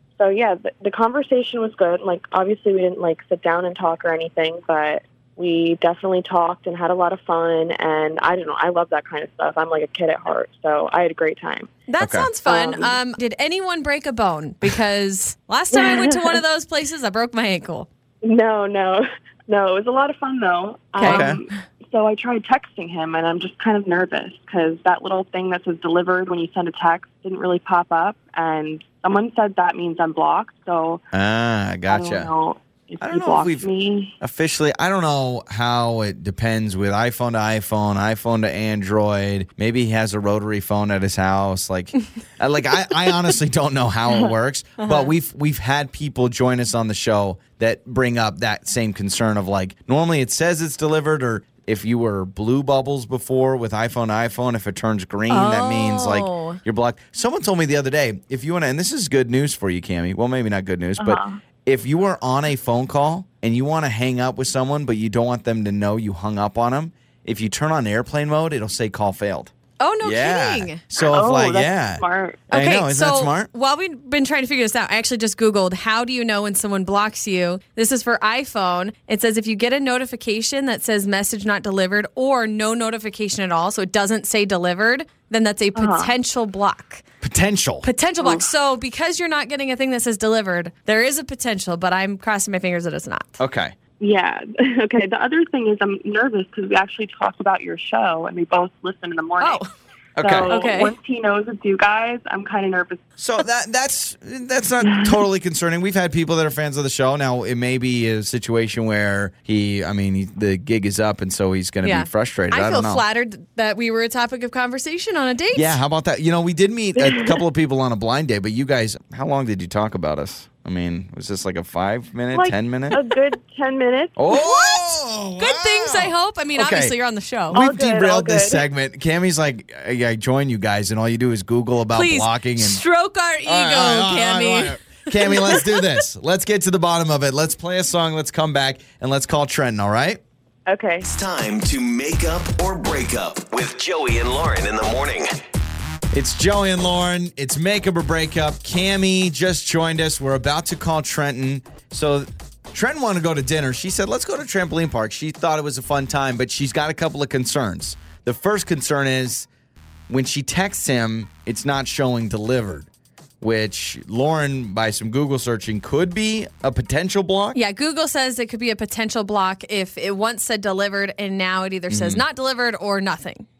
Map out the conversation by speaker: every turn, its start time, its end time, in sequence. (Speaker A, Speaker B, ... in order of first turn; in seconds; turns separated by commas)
Speaker A: 0.2-11.7, Speaker B: 11.9-17.9, Speaker C: 12.0-12.3, Speaker A: 12.5-13.0, Speaker A: 15.7-16.4, Speaker A: 18.2-31.0, Speaker B: 21.0-21.4, Speaker C: 21.0-21.4, Speaker C: 31.1-32.3, Speaker A: 31.9-34.1, Speaker C: 33.0-33.7, Speaker C: 34.2-73.5, Speaker B: 44.8-45.1, Speaker B: 55.3-56.6, Speaker A: 61.0-61.4, Speaker B: 69.8-70.8, Speaker A: 71.0-72.5, Speaker B: 72.5-87.0, Speaker A: 85.8-86.1, Speaker C: 87.2-87.9, Speaker B: 87.8-93.4, Speaker A: 88.2-88.5, Speaker C: 93.4-93.8, Speaker A: 94.0-99.6, Speaker B: 99.4-99.7, Speaker C: 100.2-100.5, Speaker A: 100.2-103.0, Speaker B: 100.5-101.0, Speaker C: 103.2-113.0, Speaker A: 104.8-105.2, Speaker B: 111.8-115.8, Speaker C: 115.5-123.0, Speaker A: 117.0-117.4, Speaker A: 122.3-124.4, Speaker C: 124.2-126.9, Speaker B: 124.3-124.8, Speaker B: 125.4-127.6, Speaker A: 127.5-128.6, Speaker C: 127.5-132.8, Speaker B: 131.9-135.9, Speaker C: 133.5-140.2, Speaker A: 140.7-141.1, Speaker D: 141.1-145.3, Speaker C: 146.1-159.5, Speaker C: 160.1-162.9, Speaker C: 163.4-167.6, Speaker B: 167.5-173.5, Speaker C: 171.9-172.2